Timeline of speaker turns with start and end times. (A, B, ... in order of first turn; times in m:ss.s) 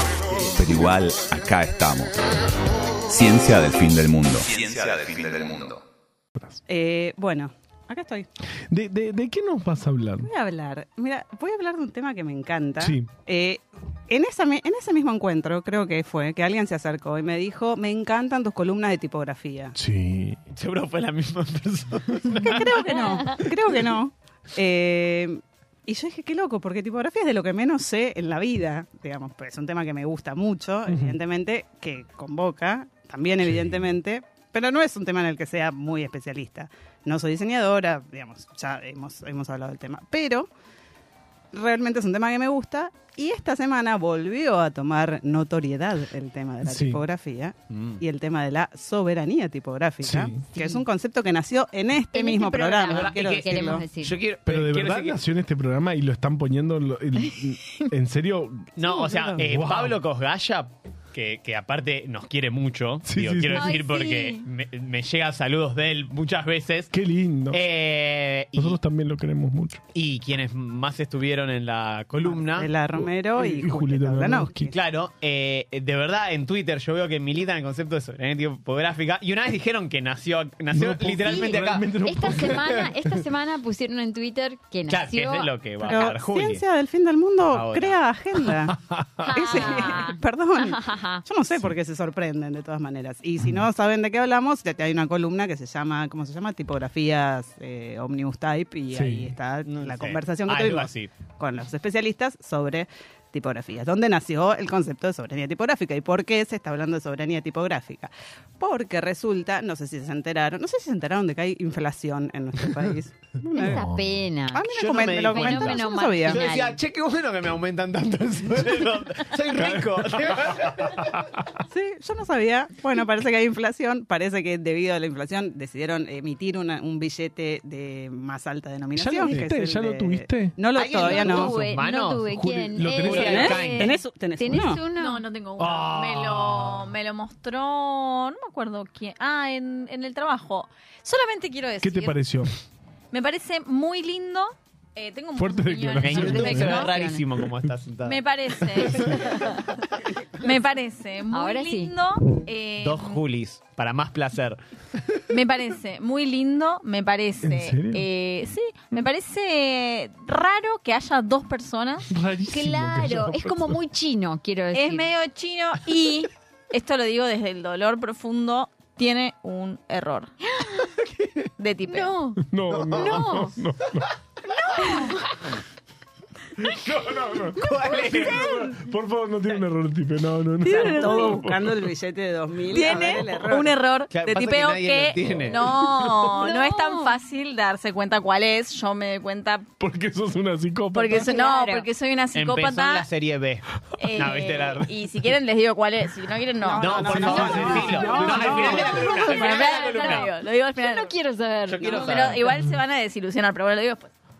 0:00.3-0:02.2 A
0:03.1-0:05.8 A
0:06.7-0:08.3 B
0:08.7-0:10.3 C
0:10.2-0:19.7 B
0:12.8-0:13.1 C
0:19.7-0:20.4 C
0:20.5-0:23.4 D
0:22.3-0:40.5 B
0:30.9-0:31.2 C
0:33.4-0:33.8 C
0:41.5-0:53.8 B
0:46.6-0:47.0 C
0:47.7-0:48.0 D
0:50.0-0:50.4 C
0:50.5-0:50.8 E
0:52.1-0:54.2 E
0:52.8-0:55.2 D
0:54.4-0:58.7 C
0:57.3-0:57.9 E
0:58.8-1:06.9 D
0:58.8-0:59.4 B
0:59.4-1:00.0 C
1:03.0-1:03.8 C
1:03.5-1:04.4 E
1:06.9-1:07.6 C
1:07.5-1:08.8 D
1:08.6-1:09.8 C
1:09.9-1:12.7 D
1:12.2-1:14.7 B
1:12.9-1:14.7 C
1:14.7-1:21.9 D
1:20.7-1:23.2 C
1:21.3-1:26.0 E
1:24.9-1:26.6 D
1:25.8-1:28.8 B
1:27.5-1:28.0 D
1:28.6-1:29.3 C
1:29.2-1:31.2 E
1:29.3-1:53.8 B
1:38.9-1:39.3 C
1:39.6-1:41.1 D
1:53.6-1:54.6 E
1:53.6-1:54.2 C
1:54.5-1:56.4 B
1:54.7-2:01.1 D
1:55.3-1:56.8 E
1:59.5-2:01.6 C
2:01.7-2:11.5 B
2:08.9-2:10.6 C
2:10.8-2:12.3 D
2:11.0-2:15.2 E
2:11.1-2:11.6 C
2:12.3-2:13.7 C
2:12.9-2:14.0 D
2:13.1-2:14.8 B
2:14.9-2:22.2 F
2:15.6-2:16.4 C
2:16.4-2:16.7 D
2:21.8-2:22.5 C
2:23.1-2:27.1 F
2:25.3-2:26.9 C
2:26.0-2:29.2 D
2:26.6-2:27.2 E
2:28.0-2:29.8 F
2:30.4-2:33.2 F
2:31.3-2:31.9 E
2:32.8-2:34.6 D
2:35.3-2:42.1 F
2:37.4-2:38.1 C
2:42.1-2:43.8 C
2:42.5-2:45.0 E
2:44.7-2:50.3 F
2:50.5-2:50.9 E
2:51.6-2:52.2 F
2:51.9-2:52.4 E
2:52.4-2:54.1 C
2:52.9-2:53.5 E
2:54.8-2:55.2 E
2:54.8-2:55.1 F
2:56.6-3:01.9 C
2:57.5-2:58.7 D
3:00.6-3:01.3 F
3:00.7-3:03.8 B
3:02.7-3:09.7 F
3:02.8-3:03.4 C
3:04.1-3:06.1 D
3:06.4-3:07.1 E
3:09.8-3:11.3 C
3:10.9-3:13.1 F
3:11.1-3:11.9 E
3:12.3-3:14.9 D
3:14.0-3:21.1 F
3:16.6-3:19.4 B
3:16.8-3:20.3 D
3:17.2-3:19.1 C
3:18.7-3:22.2 E
3:21.7-3:22.4 D
3:21.9-3:24.1 F